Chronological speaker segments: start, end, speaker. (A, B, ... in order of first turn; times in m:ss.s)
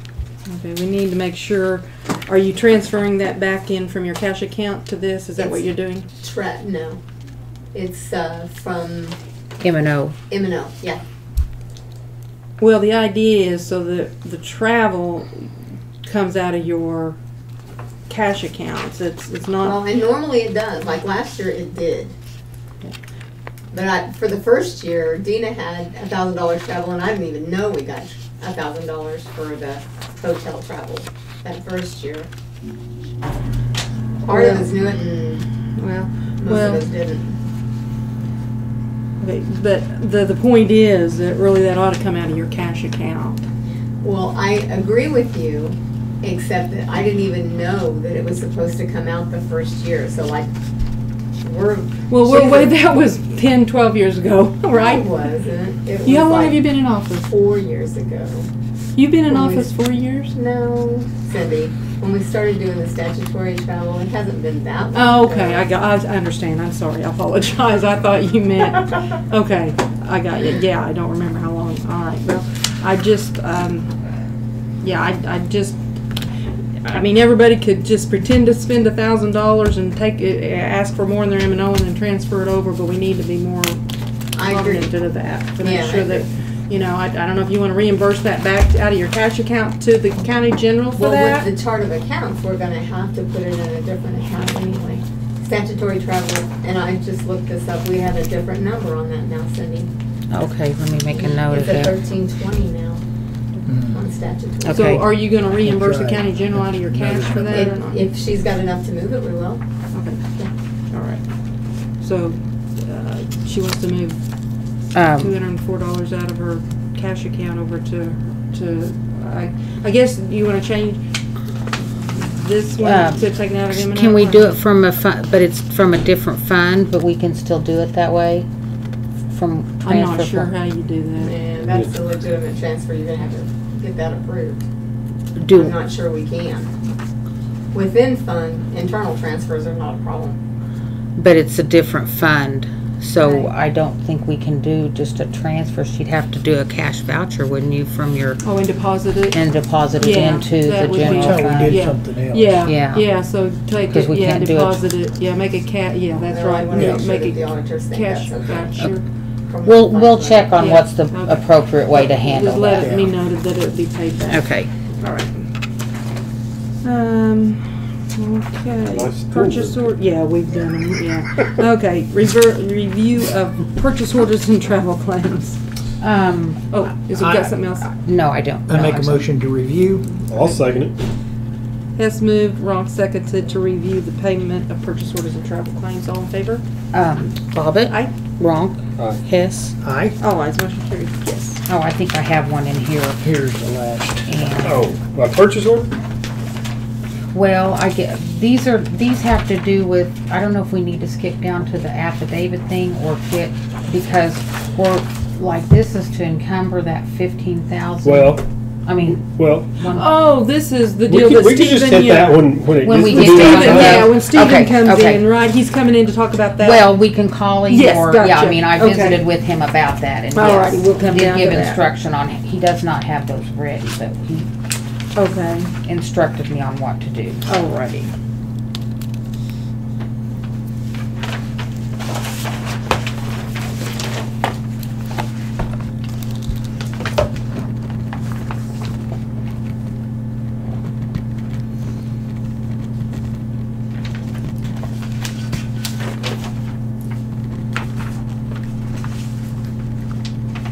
0:00.5-0:06.1 A
0:05.4-0:05.7 B
0:06.2-0:07.0 B
0:07.7-0:09.2 B
0:09.6-0:10.2 C
0:10.3-0:11.0 B
0:12.6-0:15.5 A
0:16.0-0:17.2 A
0:18.1-0:19.8 A
0:19.6-0:22.1 B
0:23.7-0:32.3 B
0:34.2-0:34.7 A
0:34.2-0:35.5 B
0:35.8-0:36.9 A
0:36.4-0:37.4 B
0:39.2-0:43.4 A
0:44.0-0:50.5 B
0:51.4-0:52.7 B
0:52.1-0:55.1 A
0:54.7-0:56.7 B
0:56.0-0:57.3 A
0:57.2-0:58.5 B
0:59.0-1:00.3 A
0:59.3-0:59.7 B
1:00.3-1:05.7 B
1:04.9-1:13.9 A
1:14.8-1:15.8 A
1:16.9-1:23.8 A
1:24.3-1:24.9 B
1:24.4-1:31.5 A
1:25.6-1:26.3 B
1:31.0-1:39.9 B
1:40.3-1:42.0 C
1:41.1-1:43.0 B
1:43.7-1:44.0 D
1:43.8-1:45.0 B
1:44.6-1:45.0 C
1:44.7-1:48.1 A
1:45.6-1:46.3 D
1:46.8-1:47.6 D
1:47.4-1:49.6 B
1:49.9-1:50.2 A
1:50.9-1:51.2 A
1:52.0-1:54.2 A
1:54.9-1:55.4 C
1:55.2-2:01.0 A
2:01.8-2:04.6 A
2:02.8-2:08.5 C
2:09.3-2:10.5 C
2:09.8-2:11.4 A
2:11.2-2:14.6 B
2:11.7-2:11.9 E
2:15.4-2:15.8 C
2:15.5-2:16.7 B
2:17.7-2:20.4 B
2:21.2-2:28.4 C
2:28.4-2:29.4 A
2:29.3-2:31.8 C
2:30.0-2:39.1 A
2:31.0-2:32.6 D
2:32.6-2:33.1 C
2:33.9-2:34.8 C
2:36.3-2:38.8 B
2:39.5-2:40.6 B
2:39.6-2:43.0 C
2:40.6-2:44.4 A
2:42.7-2:43.1 D
2:44.3-2:44.7 C
2:45.0-2:45.4 A
2:46.8-2:55.6 A
2:48.9-2:49.9 E
2:56.0-2:56.6 C
2:56.7-2:57.9 A
2:57.1-2:57.6 D
2:57.8-2:59.3 C
2:58.7-3:00.1 D
3:00.2-3:00.6 A
3:00.2-3:01.0 E
3:02.0-3:06.6 A
3:06.9-3:09.8 C
3:09.0-3:09.2 E
3:09.8-3:10.2 D
3:10.2-3:11.6 A
3:11.7-3:13.2 C
3:13.2-3:14.2 D
3:14.2-3:14.9 C
3:14.6-3:15.9 E
3:17.3-3:30.2 C
3:28.0-3:28.5 E
3:29.2-3:29.7 E
3:29.9-3:36.9 A
3:31.1-3:34.1 E
3:32.8-3:35.2 C
3:36.6-3:44.5 C
3:37.7-3:39.3 A
3:40.3-3:41.9 A
3:45.2-3:45.7 A
3:45.8-3:47.5 C
3:47.5-3:48.1 A